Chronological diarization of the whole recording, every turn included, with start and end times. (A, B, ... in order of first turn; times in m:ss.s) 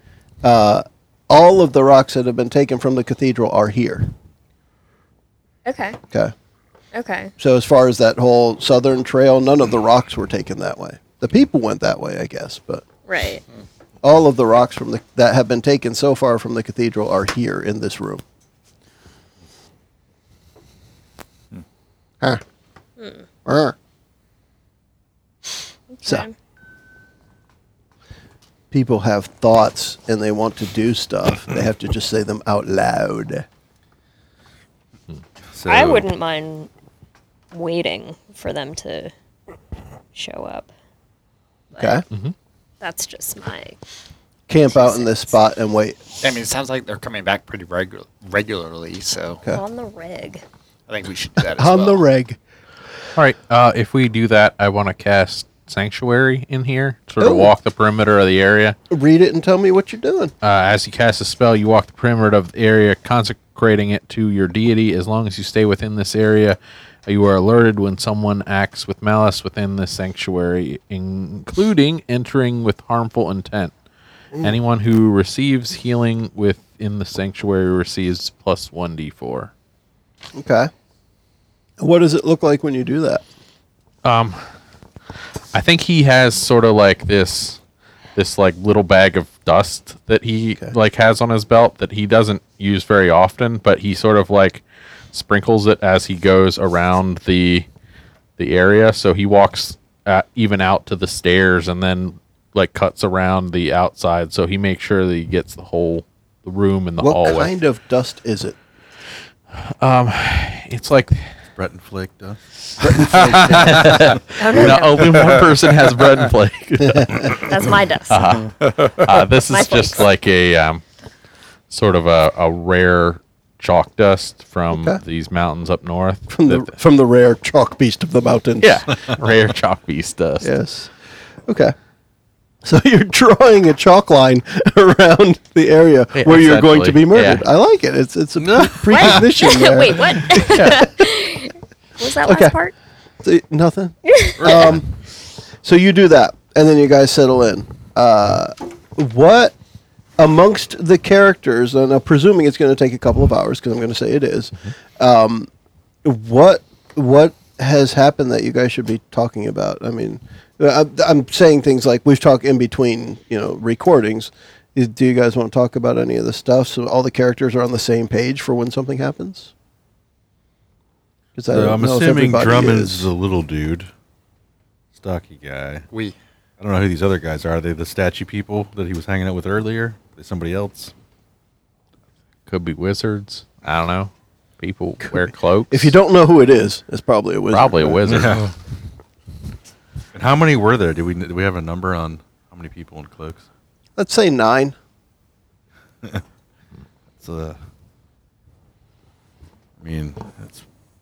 0:00.4-0:04.1 A
0:05.6-0:06.0 B
0:06.9-0:07.3 B
0:07.4-0:12.8 A
0:13.0-0:13.4 B
0:14.0-0:18.2 A
0:23.4-0:23.7 A
0:25.9-0:26.3 B
0:28.7-0:33.4 A
0:35.5-0:36.0 C
0:35.6-0:36.7 B
0:37.5-0:39.1 B
0:40.1-0:40.7 B
0:41.7-0:42.0 B
0:41.8-0:42.0 A
0:42.8-0:43.8 B
0:44.5-0:46.0 A
0:44.6-0:45.4 B
0:46.2-0:49.4 D
0:49.5-0:50.4 B
0:50.9-0:52.0 D
0:51.5-0:52.4 A
0:53.2-0:58.8 E
0:57.2-0:57.5 A
0:58.9-1:00.3 A
1:00.4-1:13.7 E
1:14.4-1:19.5 E
1:20.3-1:20.7 A
1:21.8-1:23.2 A
1:24.0-1:24.4 E
1:25.5-1:27.6 E
1:28.2-1:37.7 E
1:38.4-1:47.5 E
1:47.0-1:48.6 A
1:49.5-1:51.3 E
1:51.6-1:54.2 C
1:52.8-1:53.4 A
1:52.9-1:57.4 E
1:54.4-1:55.2 B
1:56.8-1:57.3 A
1:57.4-1:58.3 B
1:58.1-2:00.8 E
1:59.5-2:00.0 B
2:01.7-2:06.7 E
2:04.7-2:05.0 A
2:06.3-2:08.8 A
2:08.6-2:10.5 E
2:10.4-2:10.9 A
2:11.5-2:11.7 A
2:12.6-2:20.9 A
2:16.1-2:17.4 E
2:18.4-2:19.2 C
2:18.9-2:22.7 B
2:20.5-2:20.8 E
2:22.2-2:22.5 A
2:23.2-2:24.9 A
2:24.0-2:24.7 B
2:24.4-2:24.7 C
2:25.6-2:29.5 A
2:30.2-2:35.5 A
2:36.0-2:49.5 A
2:51.4-2:53.1 A
2:51.5-2:53.9 C
2:54.9-2:55.8 C
2:56.6-3:00.9 C
3:02.5-3:05.9 E
3:05.0-3:08.2 A
3:07.5-3:08.5 E
3:08.1-3:08.5 C
3:10.1-3:13.4 C
3:14.0-3:14.7 A
3:17.2-3:17.6 C
3:19.8-3:20.6 C